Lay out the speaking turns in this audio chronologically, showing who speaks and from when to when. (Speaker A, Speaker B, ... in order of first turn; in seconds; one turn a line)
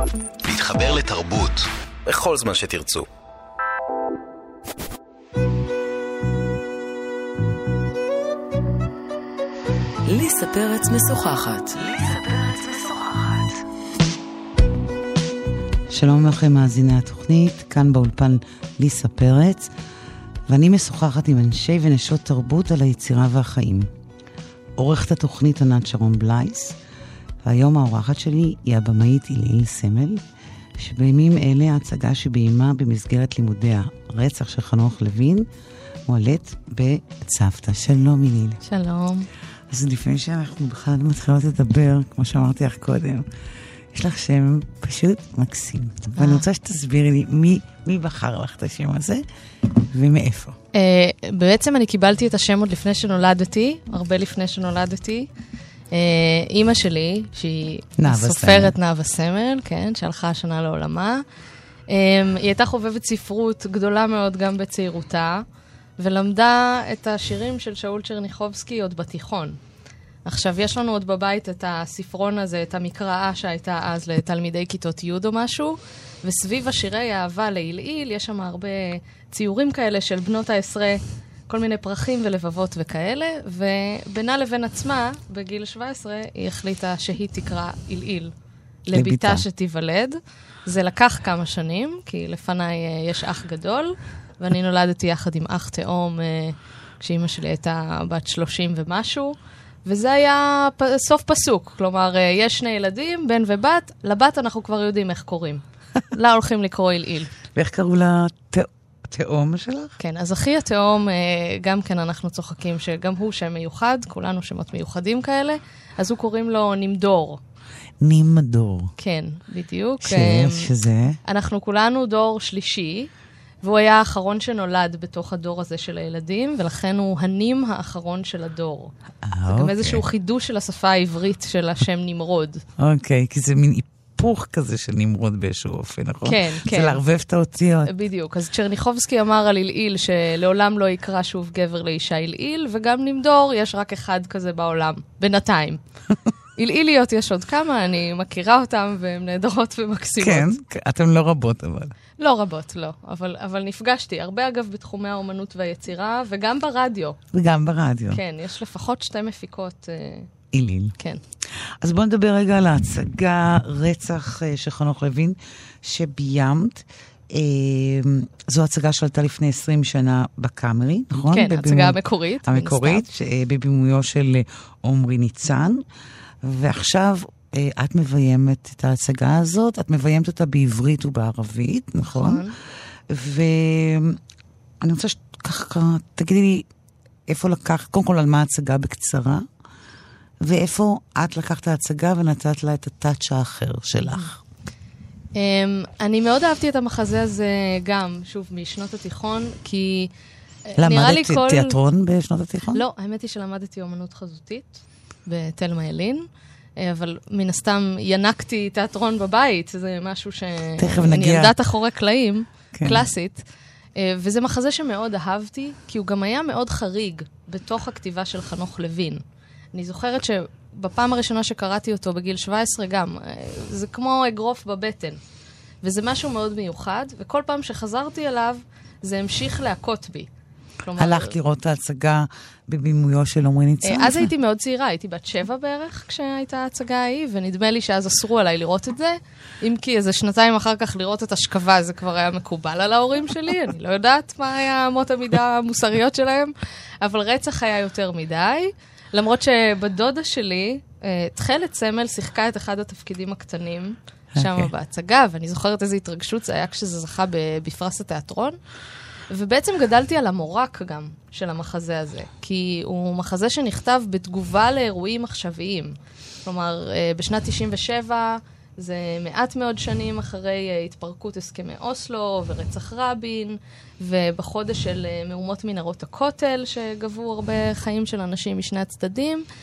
Speaker A: 0.4-3.1
Speaker B: 10.1-13.6
Speaker B: 15.9-19.7
Speaker B: 20.5-23.9
Speaker B: 24.8-26.8
Speaker B: 27.4-30.2
Speaker B: 30.8-35.5
Speaker B: 36.1-38.6
Speaker C: 38.6-39.3
Speaker B: 39.7-43.2
Speaker B: 43.9-49.2
Speaker C: 46.2-46.5
Speaker B: 49.8-50.6
Speaker C: 50.7-55.3
Speaker C: 55.9-61.2
Speaker B: 58.0-58.7
Speaker C: 61.9-65.4
Speaker C: 66.0-69.6
Speaker C: 70.3-88.3
Speaker C: 88.9-107.3
Speaker B: 88.9-89.5
Speaker B: 107.5-110.0
Speaker C: 110.0-117.4
Speaker B: 118.0-118.9
Speaker C: 119.0-120.7
Speaker B: 120.0-121.2
Speaker C: 121.2-123.1
Speaker C: 123.6-128.9
Speaker B: 129.2-130.0
Speaker C: 129.5-132.6
Speaker B: 132.8-137.9
Speaker C: 136.2-137.0
Speaker C: 137.9-145.8
Speaker C: 146.6-150.6
Speaker B: 150.2-151.9
Speaker C: 152.2-157.2
Speaker B: 157.3-158.2
Speaker C: 158.1-160.3
Speaker B: 160.5-160.9
Speaker B: 161.8-175.8
Speaker C: 171.3-173.1
Speaker B: 176.4-182.4
Speaker C: 182.1-182.6
Speaker B: 183.1-184.2
Speaker B: 184.8-186.7
Speaker B: 187.3-189.4
Speaker B: 190.4-194.4
Speaker C: 195.3-200.1
Speaker C: 200.7-201.8
Speaker B: 200.8-202.8
Speaker C: 202.7-206.3
Speaker C: 206.8-213.4
Speaker B: 210.8-211.5
Speaker B: 212.8-213.1
Speaker C: 214.0-219.2
Speaker C: 219.7-225.2
Speaker C: 225.8-230.3
Speaker C: 230.8-231.4
Speaker B: 231.0-234.3
Speaker C: 233.8-258.6
Speaker B: 254.3-254.7
Speaker C: 259.3-279.4